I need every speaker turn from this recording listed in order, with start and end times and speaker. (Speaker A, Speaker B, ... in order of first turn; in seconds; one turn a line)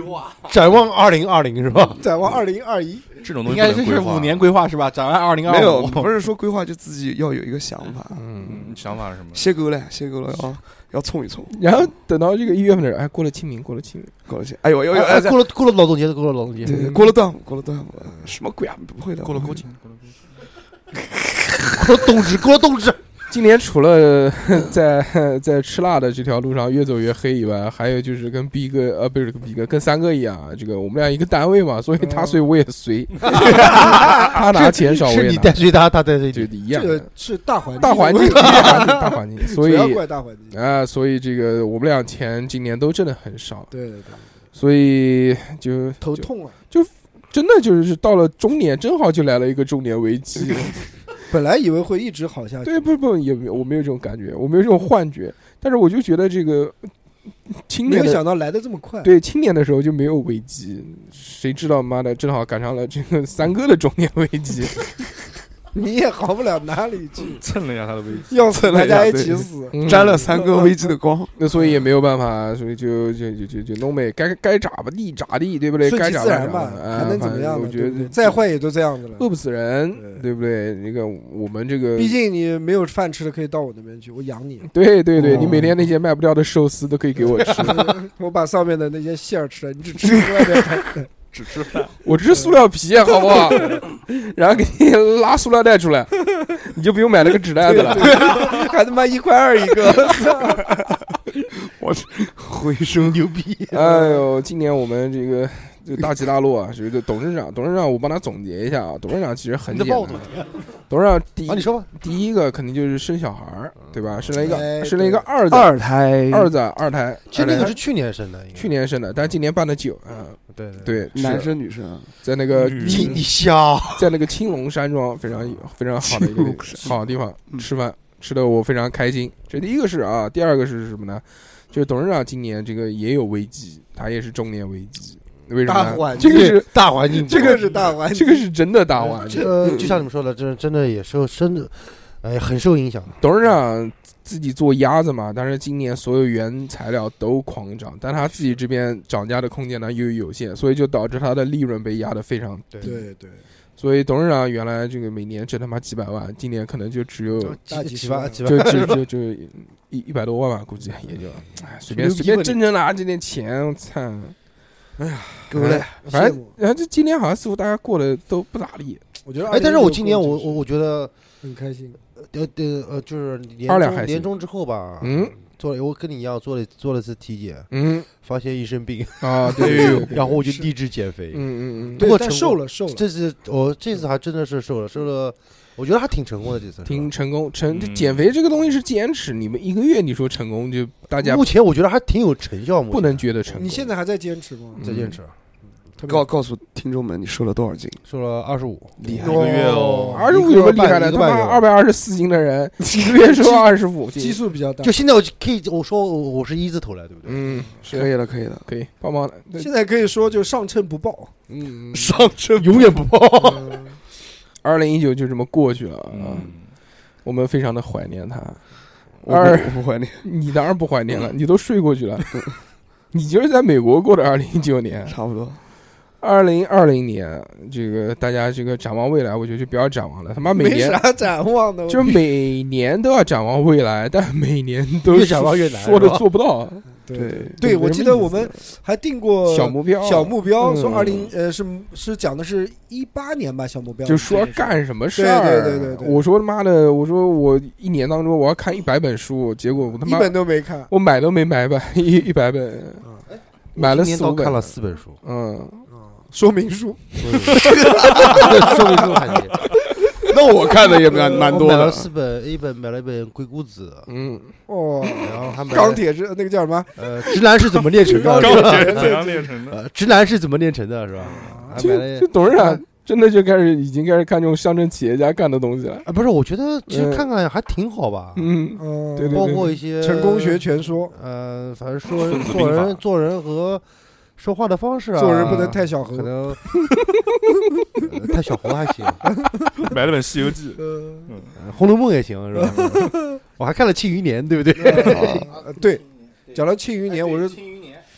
Speaker A: 0.4-2.0
Speaker B: 2.0-3.1
Speaker C: 3.2-4.5
Speaker D: 3.4-6.1
Speaker E: 5.5-8.3
Speaker F: 8.1-8.7
Speaker C: 8.4-9.4
Speaker E: 9.3-11.5
Speaker F: 11.5-14.1
Speaker E: 14.3-15.5
Speaker A: 14.9-17.0
Speaker E: 16.6-19.6
Speaker F: 16.7-17.1
Speaker C: 19.2-20.2
Speaker A: 21.6-23.0
Speaker F: 23.3-35.6
Speaker B: 32.0-32.4
Speaker A: 33.3-36.5
Speaker F: 36.3-37.1
Speaker B: 36.7-40.6
Speaker F: 37.8-43.7
Speaker A: 38.4-38.6
Speaker B: 43.7-44.2
Speaker F: 44.5-50.8
Speaker B: 46.0-46.5
Speaker B: 51.3-52.8
Speaker F: 52.6-56.9
Speaker F: 57.5-58.2
Speaker B: 57.8-59.1
Speaker F: 59.0-64.8
Speaker B: 65.7-67.4
Speaker C: 67.3-68.5
Speaker B: 68.3-70.7
Speaker E: 68.5-71.3
Speaker F: 69.7-70.3
Speaker F: 71.4-78.4
Speaker B: 75.8-79.2
Speaker F: 79.2-82.2
Speaker B: 80.0-80.2
Speaker B: 81.9-85.8
Speaker F: 84.6-87.9
Speaker B: 87.4-91.1
Speaker C: 91.3-91.9
Speaker F: 92.0-98.3
Speaker B: 92.3-92.6
Speaker B: 93.3-93.8
Speaker B: 97.6-100.6
Speaker E: 100.4-101.0
Speaker E: 101.6-103.2
Speaker A: 103.0-104.0
Speaker F: 103.7-110.3
Speaker A: 109.7-110.6
Speaker F: 110.9-115.7
Speaker A: 111.5-111.9
Speaker A: 113.8-114.5
Speaker B: 114.4-115.3
Speaker E: 115.5-116.5
Speaker F: 116.3-117.8
Speaker A: 117.3-118.7
Speaker F: 118.5-121.5
Speaker A: 120.5-121.1
Speaker E: 121.1-122.1
Speaker F: 122.2-123.2
Speaker C: 122.5-123.2
Speaker A: 122.7-124.1
Speaker F: 124.0-139.5
Speaker E: 126.0-127.0
Speaker B: 135.6-138.5
Speaker A: 136.1-137.9
Speaker A: 139.0-143.2
Speaker B: 139.1-139.8
Speaker F: 143.2-152.9
Speaker A: 152.7-153.0
Speaker B: 152.8-153.4
Speaker F: 153.8-157.6
Speaker A: 157.3-159.0
Speaker B: 157.7-158.9
Speaker F: 158.4-164.3
Speaker B: 161.8-162.6
Speaker B: 165.0-166.5
Speaker E: 165.5-166.0
Speaker F: 165.6-169.0
Speaker B: 169.2-170.6
Speaker A: 169.4-171.1
Speaker B: 171.4-172.0
Speaker A: 172.2-177.7
Speaker F: 173.7-174.3
Speaker F: 175.0-175.4
Speaker F: 177.7-178.1
Speaker A: 178.2-187.1
Speaker F: 179.2-180.3
Speaker B: 179.6-180.6
Speaker F: 181.3-182.0
Speaker B: 181.9-183.0
Speaker F: 186.8-191.5
Speaker C: 187.7-188.2
Speaker A: 191.2-193.9
Speaker F: 192.9-193.8
Speaker B: 193.6-194.8
Speaker F: 194.8-195.2
Speaker A: 194.8-195.3
Speaker B: 196.0-196.2
Speaker E: 196.0-198.0
Speaker A: 198.1-201.6
Speaker E: 199.0-199.6
Speaker C: 199.2-200.3
Speaker B: 199.2-199.9
Speaker F: 200.1-204.4
Speaker B: 203.0-204.9
Speaker A: 204.8-207.7
Speaker F: 207.2-208.1
Speaker E: 207.9-208.7
Speaker F: 208.7-209.7
Speaker B: 209.6-211.3
Speaker F: 211.5-212.1
Speaker E: 211.9-213.0
Speaker A: 212.6-213.8
Speaker B: 213.5-213.8
Speaker F: 214.6-216.5
Speaker C: 216.1-216.7
Speaker F: 217.2-218.6
Speaker E: 219.2-220.3
Speaker F: 219.2-222.4
Speaker F: 223.1-225.2
Speaker E: 225.1-225.6
Speaker F: 226.2-231.0
Speaker B: 230.5-232.2
Speaker F: 231.9-236.8
Speaker A: 235.1-236.2
Speaker B: 237.0-244.4
Speaker E: 237.1-237.6
Speaker F: 237.6-238.5
Speaker F: 239.4-241.3
Speaker F: 244.0-253.1
Speaker B: 245.1-246.2
Speaker B: 250.0-250.9
Speaker A: 253.7-255.2
Speaker F: 253.7-255.8
Speaker B: 256.0-258.2
Speaker A: 257.2-259.6
Speaker E: 258.0-258.5
Speaker E: 260.1-262.1
Speaker B: 261.1-261.5
Speaker A: 261.4-264.1
Speaker F: 264.1-264.5
Speaker B: 264.7-269.4
Speaker A: 265.2-266.0
Speaker A: 266.9-272.3
Speaker C: 268.1-269.8
Speaker B: 271.4-271.8
Speaker F: 271.8-276.1
Speaker B: 272.5-272.8
Speaker A: 276.0-278.5
Speaker F: 276.9-277.2
Speaker F: 278.4-279.7
Speaker B: 278.7-281.1
Speaker A: 279.3-283.8
Speaker C: 282.1-283.0
Speaker A: 284.4-286.6
Speaker B: 285.1-286.4
Speaker A: 288.1-289.2
Speaker B: 289.4-289.7
Speaker C: 289.8-291.5
Speaker B: 290.8-291.3
Speaker A: 291.6-295.6
Speaker C: 292.6-293.0
Speaker B: 292.7-293.3
Speaker B: 294.8-297.7